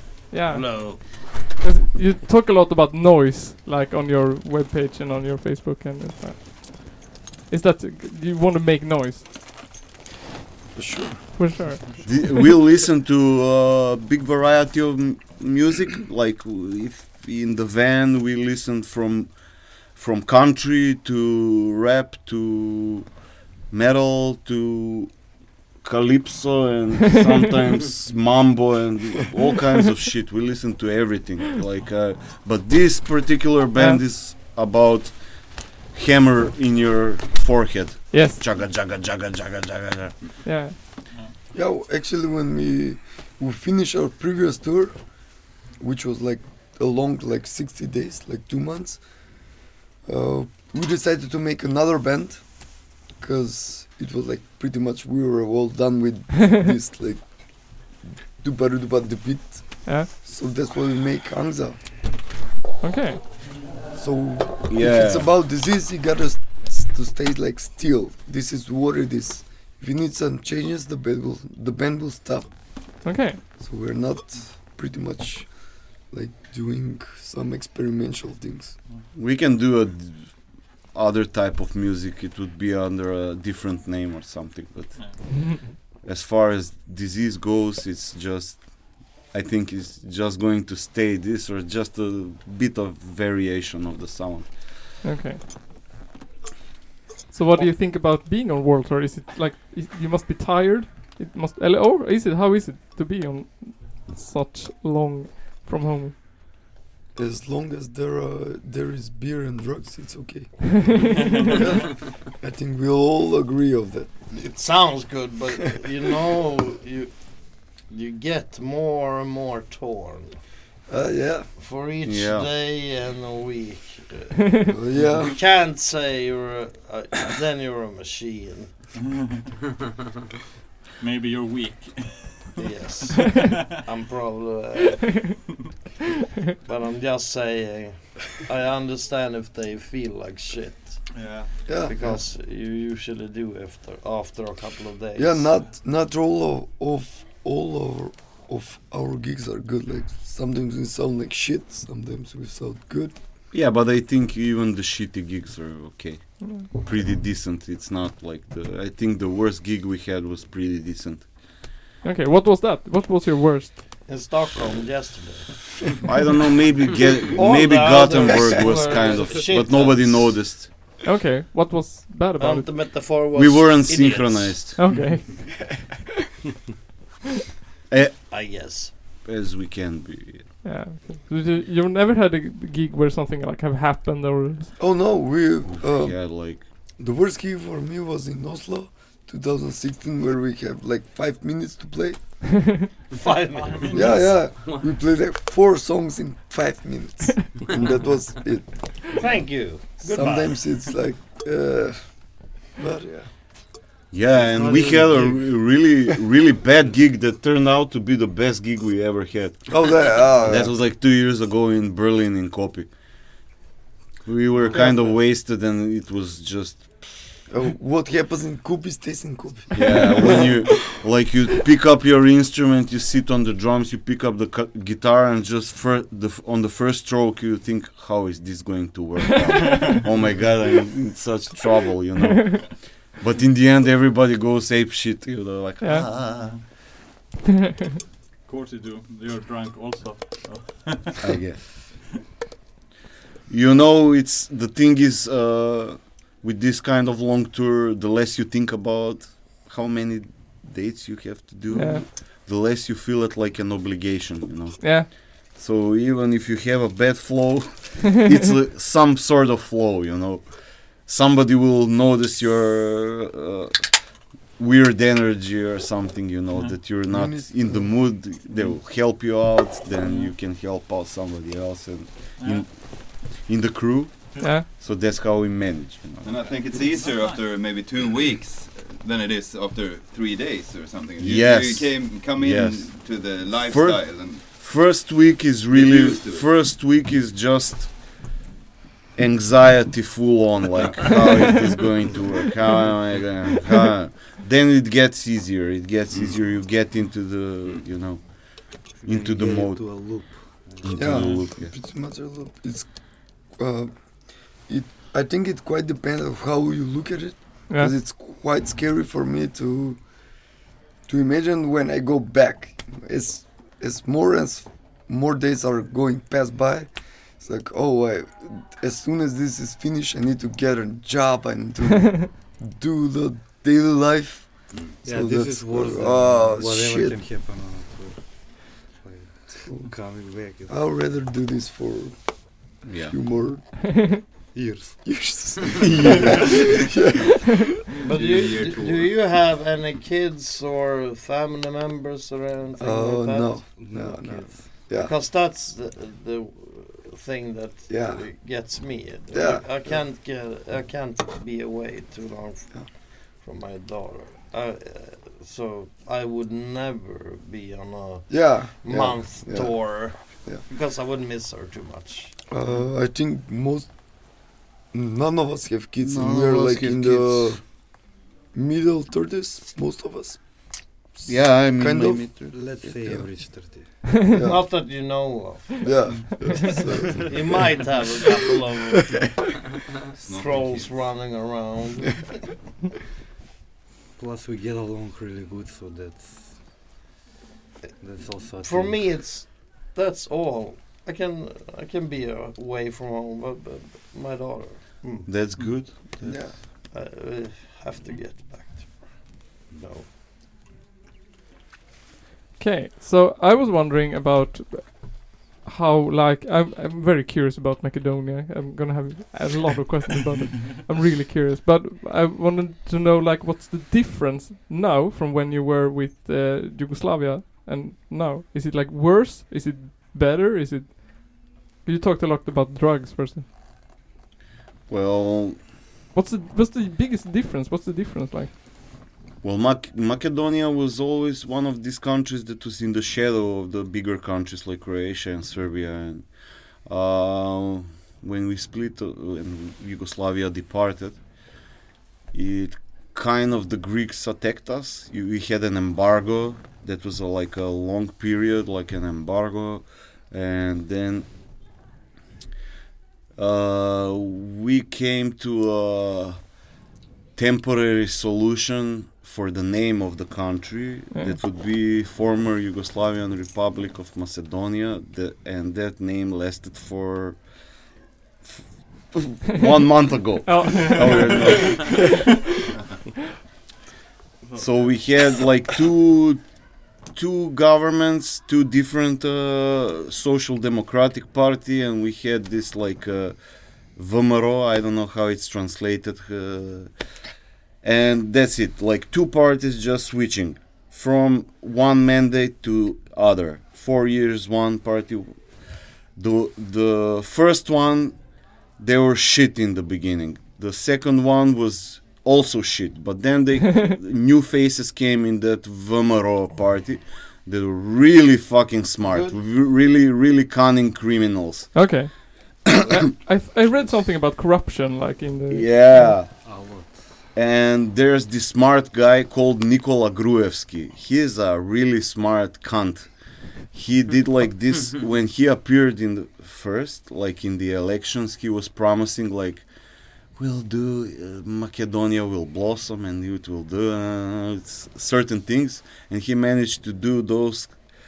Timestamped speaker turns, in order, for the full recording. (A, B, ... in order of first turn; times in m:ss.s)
0:00.3-0:09.3 A
0:00.5-0:01.0 B
0:10.7-0:11.7 C
0:11.4-0:11.8 A
0:12.0-0:19.3 D
0:19.9-0:23.1 D
0:23.7-0:25.1 D
0:25.8-0:35.2 D
0:35.9-0:40.2 D
0:38.1-0:38.4 A
0:40.4-0:40.8 A
0:41.5-0:45.0 C
0:45.8-0:49.0 C
0:50.0-1:01.8 C
1:02.8-1:03.2 A
1:03.9-1:12.6 C
1:04.7-1:05.3 D
1:13.0-1:13.4 A
1:13.6-1:18.8 C
1:19.2-1:20.3 D
1:20.9-1:25.5 D
1:25.0-1:25.2 E
1:26.0-1:34.8 D
1:35.0-1:35.4 A
1:37.3-1:46.2 A
1:47.2-1:54.1 C
1:51.2-1:51.7 E
1:54.3-2:00.4 B
2:00.9-2:01.5 C
2:01.6-2:08.8 B
2:02.0-2:02.5 D
2:04.7-2:05.4 C
2:09.0-2:09.4 E
2:11.0-2:13.8 E
2:12.6-2:15.4 B
2:16.6-2:21.0 B
2:21.1-2:21.7 E
2:21.7-2:22.2 C
2:21.7-2:25.5 B
2:25.2-2:33.2 C
2:33.5-2:41.3 D
2:36.4-2:36.7 A
2:42.0-2:43.8 A
2:44.1-2:45.8 B
2:46.0-2:50.7 D
2:47.3-2:50.4 B
2:51.0-2:52.7 A
2:52.4-2:54.6 B
2:53.3-2:54.8 D
2:54.8-2:55.5 A
2:57.9-2:58.2 D
2:58.3-2:58.9 B
2:59.2-3:00.6 D
3:00.6-3:04.7 A
3:04.8-3:06.5 C
3:05.7-3:06.6 D
3:07.0-3:12.2 C
3:13.1-3:14.2 B
3:13.5-3:14.4 E
3:13.9-3:19.0 C
3:19.1-3:20.7 B
3:20.0-3:23.3 C
3:24.1-3:32.9 D
3:24.3-3:25.5 F
3:29.7-3:30.8 C
3:34.2-3:37.4 D
3:37.5-3:40.8 C
3:39.7-3:56.6 D
3:49.6-3:50.0 E
3:55.8-3:56.1 A
3:58.4-4:01.4 E
4:01.2-4:01.9 D
4:03.5-4:36.6 D
4:11.7-4:12.0 A
4:14.8-4:15.1 A
4:26.5-4:26.8 E
4:27.1-4:28.2 C
4:30.0-4:30.3 E
4:32.4-4:32.7 E
4:34.3-4:34.6 E
4:34.4-4:34.7 A
4:36.2-4:44.5 G
4:36.7-4:37.5 E
4:41.2-4:48.2 D
4:45.7-4:46.5 G
4:49.2-5:01.7 D
4:56.1-4:56.4 G
4:59.0-5:01.0 F
5:00.9-5:03.9 C
5:04.7-5:10.0 C
5:11.1-5:27.2 C
5:25.0-5:30.8 F
5:29.7-5:34.3 C
5:32.8-5:33.2 D
5:34.5-5:35.3 F
5:35.0-5:37.7 C
5:35.9-5:36.3 D
5:38.0-5:43.7 B
5:38.1-5:39.2 G
5:42.8-5:45.1 C
5:43.7-5:44.9 F
5:44.9-6:02.4 B
5:47.9-5:48.3 C
5:49.3-5:50.0 C
5:58.3-6:00.6 C
6:02.5-6:03.9 C
6:04.9-6:07.6 C
6:06.0-6:07.6 D
6:08.5-6:10.4 C
6:11.2-6:12.3 C
6:11.2-6:12.9 D
6:12.5-6:14.0 F
6:14.3-6:14.7 C
6:14.4-6:16.6 B
6:15.8-6:18.0 C
6:17.2-6:19.4 B
6:20.2-6:21.1 G
6:20.2-6:22.6 B
6:24.2-6:26.6 F
6:28.0-6:29.2 F
6:28.5-6:35.5 B
6:35.2-6:36.2 D
6:36.2-6:36.6 C
6:36.3-6:40.1 B
6:42.6-7:03.5 A
7:04.9-7:05.6 D
7:06.1-7:08.5 A
7:09.4-7:16.3 D
7:16.9-7:21.2 D
7:22.3-7:31.3 D
7:33.4-7:36.4 D
7:37.4-7:47.4 D
7:48.4-7:52.1 D
7:50.5-7:51.4 A
7:50.8-7:52.2 E
7:54.5-7:55.0 E
7:54.6-7:56.4 D
7:57.1-8:03.4 D
8:04.0-8:06.9 D
8:07.8-8:15.6 D
8:16.2-8:18.2 D
8:18.8-8:31.9 D
8:31.8-8:36.2 A
8:35.5-8:36.6 D
8:36.4-8:37.2 F
8:37.3-8:43.1 D
8:43.7-8:49.7 D
8:50.4-8:57.8 D